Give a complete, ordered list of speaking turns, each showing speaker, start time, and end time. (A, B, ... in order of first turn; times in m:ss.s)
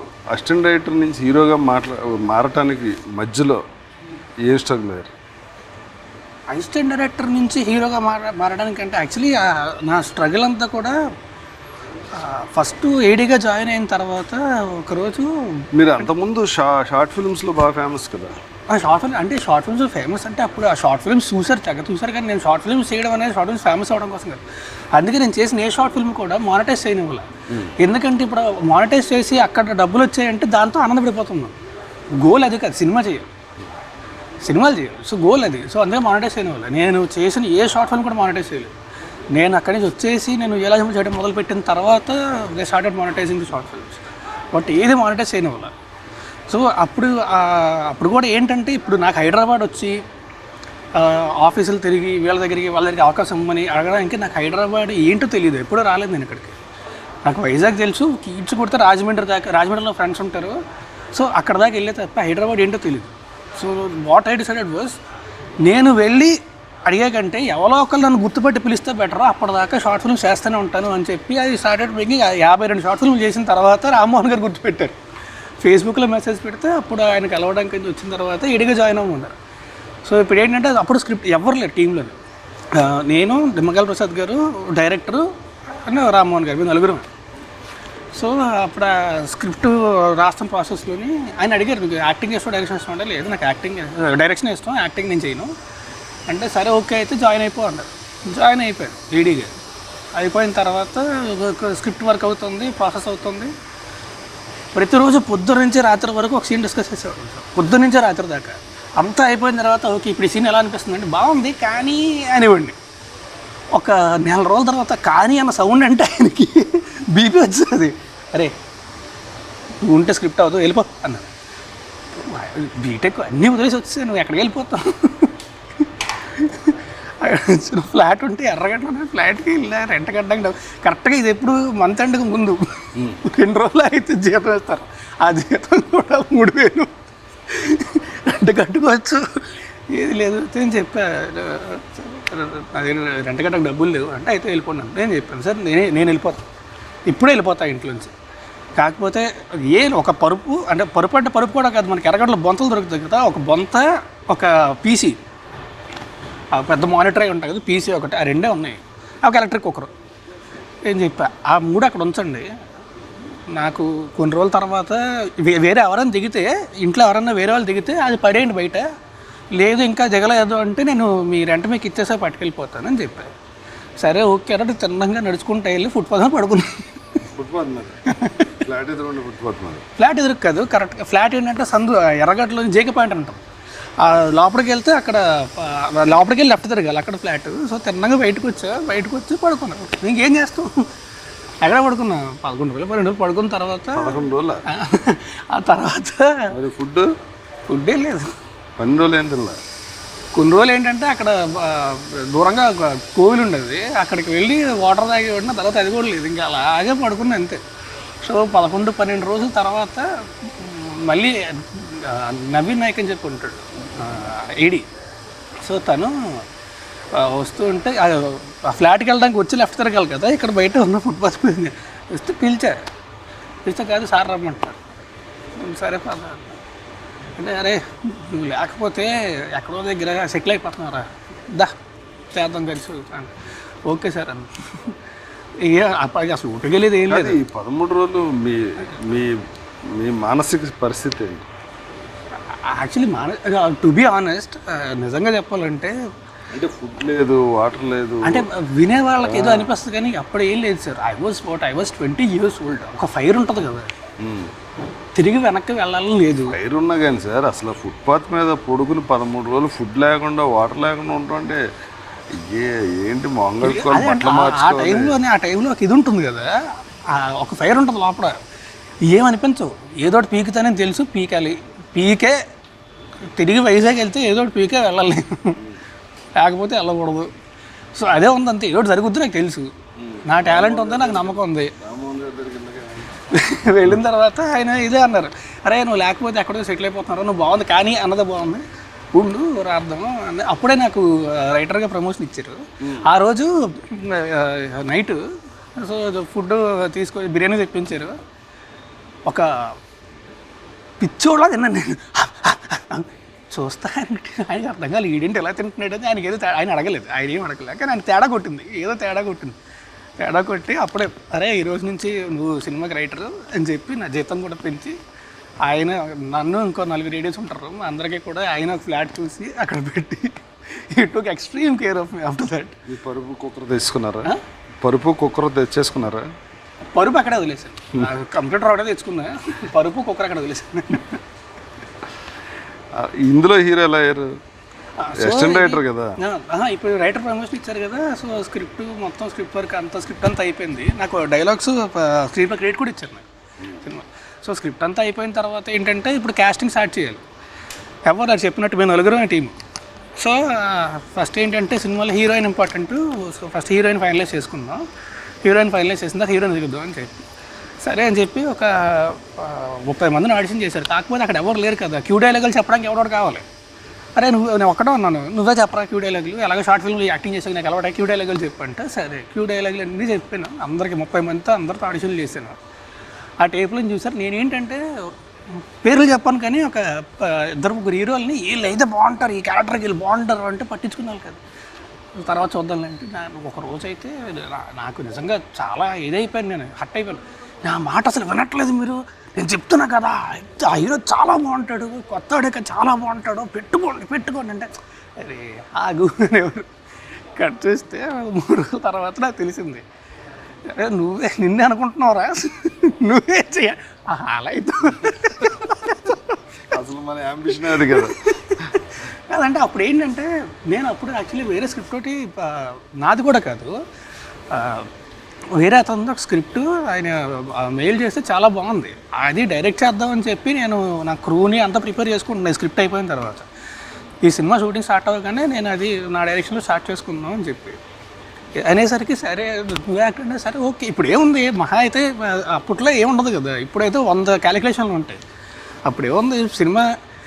0:00.3-0:03.6 A
0:04.5-0:05.1 A
0:06.5-0:11.0 B
0:12.1-0:15.7 B
0:15.7-0:18.4 A
0:18.7-0:24.4 B
0:24.9-0:27.2 B
0:27.8-0:31.6 B
0:32.2-0:33.3 B
0:34.4-0:38.7 B
0:39.3-0:45.7 B
0:46.5-0:50.0 B
0:50.9-0:56.6 B
0:57.2-1:00.6 B
1:01.1-1:05.0 B
1:05.6-1:15.0 B
1:15.6-1:19.4 B
1:20.0-1:22.2 B
1:22.7-1:25.3 B
1:25.8-1:27.1 B
1:28.1-1:35.5 B
1:36.3-1:39.5 B
1:40.1-1:43.5 B
1:44.8-1:52.8 B
1:53.7-1:58.6 B
1:59.8-2:01.3 B
2:02.1-2:26.4 B
2:27.1-2:28.1 B
2:28.8-2:35.2 B
2:36.5-2:39.9 B
2:40.8-2:42.5 B
2:43.5-2:48.9 B
2:49.6-2:53.3 B
2:54.0-2:56.9 B
2:57.2-2:58.0 A
2:58.1-2:58.5 B
2:58.5-2:59.8 A
3:00.0-3:03.4 B
3:04.0-3:10.9 B
3:11.6-3:16.5 B
3:13.9-3:14.6 A
3:16.5-3:17.1 A
3:17.7-3:18.3 B
3:18.8-3:19.6 A
3:20.3-3:27.6 B
3:28.2-3:34.9 B
3:35.6-3:36.4 B
3:37.1-3:42.8 B
3:43.6-3:44.8 B
3:45.6-3:46.6 B
3:47.4-3:51.7 B
3:52.3-3:55.0 B
3:55.6-3:57.4 B
3:57.1-3:59.4 A
3:59.9-4:01.5 A
4:02.5-4:06.0 B
4:06.5-4:08.4 A
4:08.2-4:13.9 B
4:09.2-4:09.7 A
4:14.2-4:14.5 A
4:15.2-4:16.6 B
4:16.5-4:21.6 A
4:22.4-4:25.2 A
4:23.6-4:26.5 B
4:27.1-4:28.4 B
4:29.1-4:32.4 B
4:33.4-4:35.6 B
4:36.4-4:37.3 B
4:38.0-4:39.7 B
4:40.0-4:43.2 A
4:40.3-4:41.7 B
4:43.3-4:55.2 B
4:52.8-4:53.1 A
4:55.8-4:58.2 B
4:59.3-4:59.8 B
5:01.0-5:09.6 B
5:10.2-5:15.0 B
5:15.6-5:22.8 B
5:22.9-5:26.3 A
5:26.9-5:31.2 B
5:32.9-5:34.3 A
5:35.0-5:47.2 B
5:35.2-5:36.2 A
5:48.1-5:49.6 B
5:50.2-5:54.8 B
5:55.4-5:57.2 B
5:57.8-6:03.5 B
6:04.2-6:12.6 B
6:13.4-6:21.4 B
6:22.2-6:36.7 B
6:37.4-6:39.8 B
6:40.7-6:46.4 B
6:46.7-6:48.2 A
6:47.5-6:53.8 B
6:54.5-6:54.9 B
6:55.5-7:03.5 B
7:04.2-7:07.8 B
7:08.6-7:15.2 B
7:15.9-7:16.9 B